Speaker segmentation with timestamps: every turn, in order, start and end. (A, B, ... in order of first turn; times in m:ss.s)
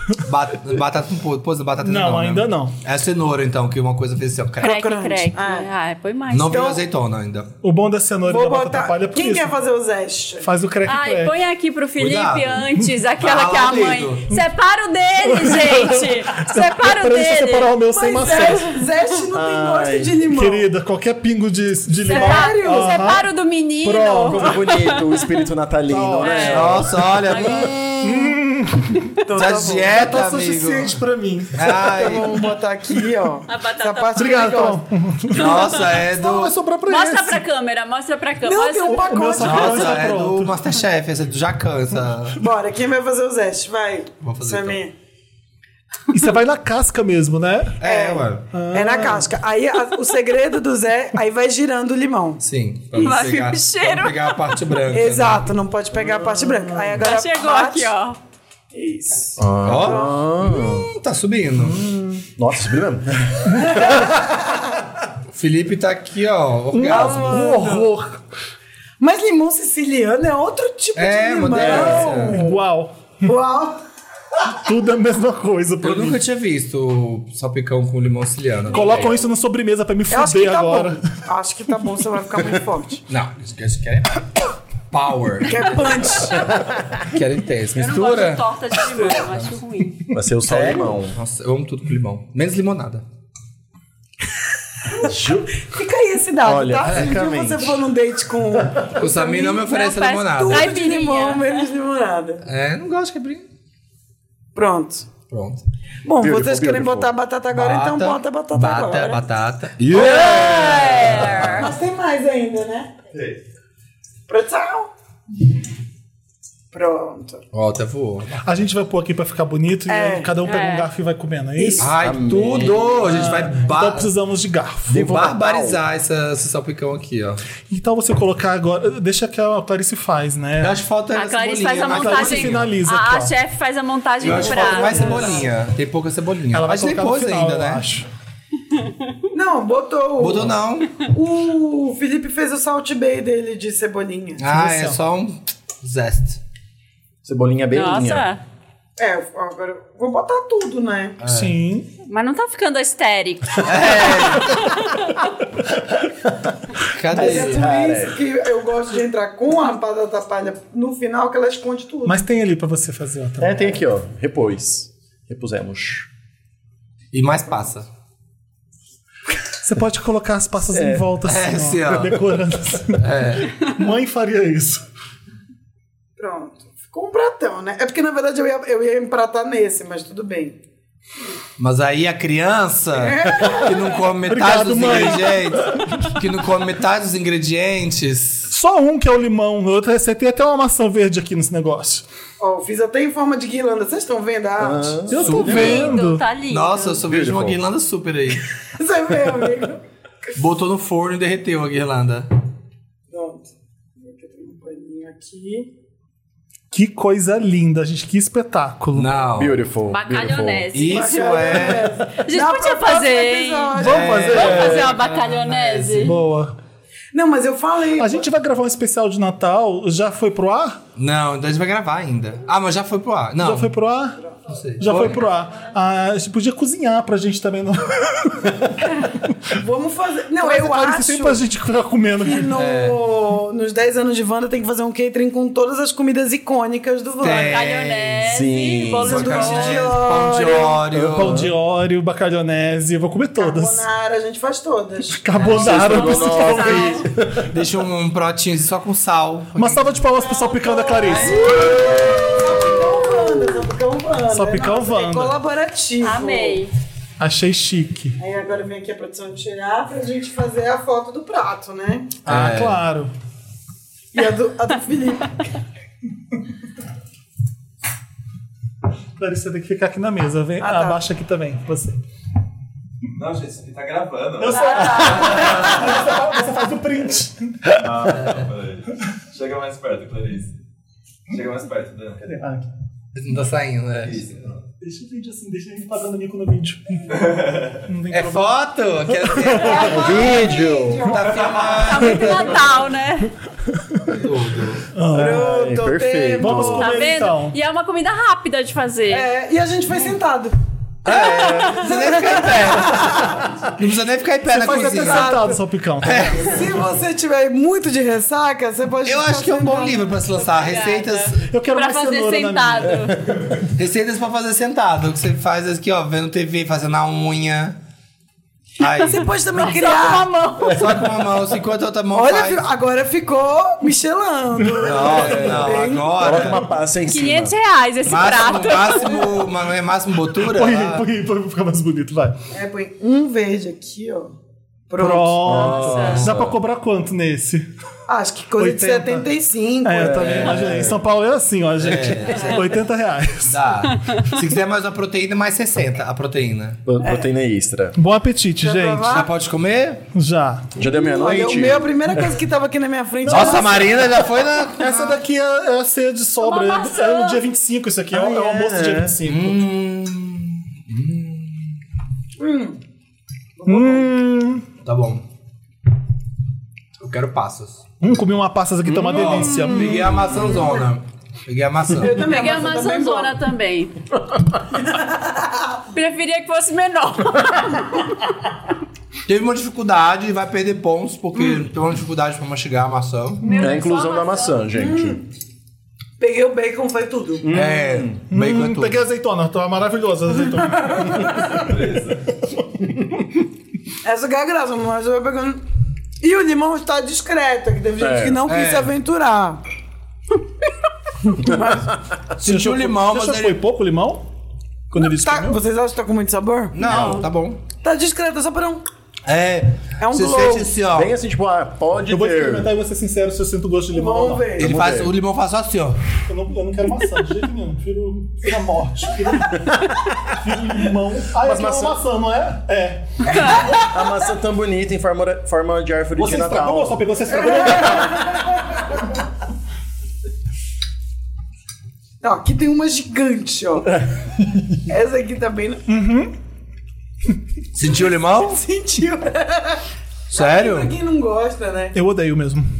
0:00.2-0:04.8 A
0:01.8-0:02.8 B
0:04.6-0:05.7 C
0:04.6-0:06.6 D
0:06.3-0:07.5 A
0:06.5-0:06.8 C
0:07.6-0:09.5 B
0:08.3-0:10.5 C
0:10.4-0:11.3 B
0:10.9-0:17.8 D
0:12.0-0:14.4 A
0:15.2-0:18.8 B
0:17.9-0:20.7 C
0:19.3-0:20.2 E
0:20.3-0:23.3 B
0:22.0-0:23.2 C
0:22.1-0:25.2 D
0:23.8-0:24.5 B
0:24.2-0:28.4 E
0:25.9-0:26.8 B
0:26.2-0:27.9 D
0:26.4-0:27.8 A
0:28.0-0:29.2 B
0:29.2-0:30.0 C
0:29.4-0:31.0 A
0:29.9-0:31.9 B
0:31.5-0:32.3 A
0:31.8-0:34.8 C
0:33.5-0:34.7 D
0:34.2-0:37.4 B
0:35.3-0:36.5 A
0:35.4-0:36.0 D
0:36.9-0:39.1 D
0:38.4-0:40.1 C
0:38.9-0:40.5 B
0:39.4-0:42.4 A
0:42.4-0:44.9 C
0:44.2-0:44.8 A
0:46.1-0:47.8 B
0:47.8-0:48.5 A
0:47.8-0:52.4 C
0:48.5-0:49.3 B
0:52.4-0:55.5 A
0:53.0-0:54.6 D
0:54.9-0:57.9 C
0:56.0-0:57.0 E
0:57.0-0:58.2 D
0:58.7-1:00.2 C
0:59.4-1:00.9 E
0:59.6-1:01.8 A
1:01.7-1:04.0 E
1:03.7-1:04.1 C
1:05.3-1:07.6 A
1:06.7-1:08.2 B
1:06.9-1:07.9 C
1:09.0-1:12.6 C
1:11.0-1:12.4 A
1:11.6-1:12.1 E
1:11.8-1:13.0 B
1:13.2-1:13.8 C
1:14.5-1:16.2 B
1:15.8-1:19.1 A
1:18.7-1:21.0 B
1:18.7-1:19.2 D
1:20.1-1:23.0 C
1:23.1-1:24.3 A
1:24.9-1:28.5 A
1:25.5-1:26.5 C
1:27.8-1:30.0 D
1:29.0-1:29.6 A
1:30.1-1:31.2 E
1:30.4-1:33.0 A
1:35.0-1:35.5 E
1:35.0-1:39.8 C
1:36.4-1:37.8 E
1:36.9-1:37.1 A
1:38.9-1:40.8 A
1:39.6-1:41.6 D
1:40.3-1:42.4 C
1:42.4-1:43.4 A
1:44.6-1:45.1 C
1:45.3-1:45.6 A
1:46.0-1:49.2 C
1:46.2-1:47.1 E
1:47.5-1:51.7 A
1:49.9-1:51.8 D
1:49.9-1:52.9 C
1:53.1-1:53.4 F
1:54.3-1:54.9 C
1:56.7-1:57.4 C
1:57.5-1:58.4 A
1:58.4-2:01.9 B
1:59.9-2:00.4 C
2:00.4-2:00.9 D
2:01.6-2:01.8 C
2:01.8-2:04.1 A
2:02.0-2:03.0 E
2:03.0-2:05.1 B
2:04.9-2:05.8 E
2:05.0-2:07.4 A
2:07.7-2:10.8 B
2:10.6-2:12.7 A
2:11.2-2:15.4 D
2:11.8-2:13.4 B
2:14.2-2:17.9 A
2:14.4-2:15.4 B
2:14.5-2:15.4 C
2:16.5-2:18.1 B
2:19.3-2:24.4 C
2:20.2-2:21.0 A
2:24.4-2:26.4 A
2:24.5-2:25.0 B
2:27.2-2:28.3 E
2:27.7-2:28.4 D
2:29.0-2:31.2 C
2:31.2-2:31.6 A
2:31.2-2:31.9 B
2:32.1-2:35.3 D
2:33.6-2:34.7 A
2:36.9-2:37.7 A
2:37.1-2:38.2 E
2:37.1-2:42.2 C
2:42.1-2:43.6 B
2:43.4-2:46.1 E
2:47.1-2:47.9 A
2:49.6-2:54.8 B
2:50.7-2:51.1 E
2:51.2-2:52.2 A
2:53.0-2:53.5 A
2:56.2-3:00.6 C
3:01.6-3:08.5 A
3:03.0-3:03.8 C
3:04.3-3:06.2 B
3:08.5-3:12.0 B
3:12.4-3:15.0 C
3:14.6-3:16.0 E
3:15.1-3:16.3 B
3:15.2-3:18.5 A
3:15.3-3:17.0 D
3:17.1-3:17.6 E
3:18.8-3:19.8 C
3:20.4-3:22.3 A
3:23.1-3:25.7 C
3:26.7-3:29.1 B
3:29.0-3:29.6 A
3:29.4-3:30.6 E
3:29.9-3:36.2 D
3:30.7-3:32.0 A
3:30.8-3:34.5 C
3:33.8-3:34.9 B
3:33.8-3:36.2 A
3:36.0-3:36.5 B
3:37.1-3:38.2 C
3:38.0-3:40.8 B
3:41.0-3:43.7 A
3:43.4-3:44.2 B
3:44.5-3:45.2 A
3:44.8-3:49.4 B
3:49.5-3:51.4 C
3:50.4-3:52.6 B
3:52.2-3:57.6 C
3:52.5-3:53.0 A
3:57.2-3:58.3 A
3:57.4-3:59.9 D
3:58.2-3:59.2 E
3:59.0-4:01.4 A
3:59.1-4:00.8 C
4:00.9-4:01.5 E
4:01.1-4:03.9 B
4:03.4-4:05.4 C
4:05.1-4:07.0 B
4:05.4-4:07.5 E
4:05.5-4:07.1 D
4:07.5-4:10.0 A
4:09.6-4:11.6 B
4:10.2-4:16.6 C
4:11.2-4:12.2 A
4:11.4-4:12.1 D
4:14.3-4:15.4 B
4:16.0-4:16.7 D
4:17.2-4:18.2 B
4:18.2-4:22.1 C
4:22.3-4:22.8 A
4:22.3-4:23.1 B
4:24.1-4:25.5 C
4:29.2-4:32.0 B
4:30.6-4:31.0 C
4:33.2-4:35.4 F
4:34.4-4:37.8 B
4:34.5-4:35.7 D
4:35.2-4:35.8 A
4:37.8-4:40.5 F
4:41.3-4:42.2 F
4:42.3-4:42.6 E
4:43.2-4:44.2 A
4:44.0-4:44.6 F
4:44.8-4:48.6 B
4:47.1-4:47.9 F
4:48.1-4:50.3 A
4:49.1-4:50.0 B
4:49.5-4:51.9 C
4:49.9-4:51.2 E
4:51.0-4:52.8 A
4:51.5-4:51.9 F
4:51.8-4:53.3 D
4:53.8-4:54.2 B
4:54.1-4:54.8 A
4:54.9-4:55.4 B
4:55.1-4:57.1 C
4:55.1-4:57.0 E
4:56.4-4:57.6 B
4:56.8-4:59.3 D
4:59.1-5:00.5 C
5:01.0-5:05.5 A
5:01.1-5:02.0 D
5:01.1-5:03.4 C
5:04.5-5:06.5 B
5:04.6-5:05.6 C
5:06.0-5:06.6 A
5:06.4-5:10.1 C
5:09.0-5:11.5 A
5:10.5-5:13.3 D
5:11.5-5:13.2 B
5:13.1-5:13.4 E
5:13.7-5:17.8 A
5:18.8-5:19.3 A
5:19.0-5:20.3 C
5:19.6-5:20.8 D
5:20.6-5:22.6 A
5:22.1-5:26.4 C
5:24.8-5:26.6 A
5:26.2-5:27.6 E
5:27.1-5:29.3 D
5:28.0-5:31.0 A
5:30.5-5:32.4 B
5:32.5-5:34.3 C
5:34.9-5:35.8 C
5:35.0-5:37.7 B
5:35.4-5:36.4 E
5:35.6-5:36.5 A
5:35.7-5:36.3 D
5:38.1-5:40.5 C
5:38.6-5:39.3 B
5:39.8-5:43.6 B
5:40.0-5:41.0 E
5:41.8-5:42.8 A
5:43.5-5:46.8 A
5:46.9-5:48.0 E
5:48.0-5:49.2 B
5:48.6-5:49.3 C
5:49.1-5:50.0 A
5:50.1-5:50.7 B
5:50.8-5:51.9 E
5:50.9-5:54.0 C
5:53.3-5:55.2 A
5:54.8-5:59.6 B
5:56.4-5:57.4 D
5:58.1-5:59.2 E
5:59.2-6:01.8 A
6:02.4-6:02.8 C
6:03.6-6:04.1 C
6:03.7-6:04.6 B
6:04.8-6:05.2 A
6:07.0-6:07.8 A
6:08.0-6:10.2 B
6:08.9-6:10.0 E
6:09.1-6:12.3 A
6:12.0-6:13.4 C
6:12.1-6:14.0 D
6:14.9-6:15.4 C
6:15.9-6:18.3 D
6:19.3-6:23.5 A
6:23.4-6:24.6 D
6:23.5-6:25.2 E
6:24.8-6:25.2 C
6:26.2-6:27.5 C
6:27.4-6:28.2 E
6:27.5-6:29.0 A
6:28.3-6:31.9 B
6:31.5-6:32.3 F
6:34.0-6:35.6 C
6:36.2-6:39.6 C
6:38.0-6:38.4 E
6:38.5-6:38.9 A
6:41.2-6:41.9 C
6:42.4-6:43.6 A
6:42.4-6:44.2 B
6:44.9-6:45.6 B
6:45.0-6:47.1 C
6:46.7-6:47.6 A
6:46.9-6:47.1 D
6:46.9-6:47.2 E
6:47.8-6:48.8 C
6:49.3-6:51.1 A
6:50.0-6:50.7 C
6:50.9-6:52.7 E
6:52.1-6:54.6 B
6:53.9-6:54.7 C
6:54.6-6:56.0 A
6:54.6-6:55.2 E
6:56.3-7:03.6 B
6:59.7-7:00.0 E
7:01.4-7:02.0 E
7:03.6-7:07.0 E
7:06.2-7:08.4 B
7:12.2-7:14.0 C
7:13.9-7:14.6 E
7:14.9-7:15.8 C
7:15.9-7:16.3 B
7:17.7-7:18.6 A
7:18.4-7:22.0 C
7:20.3-7:20.9 A
7:21.9-7:22.7 B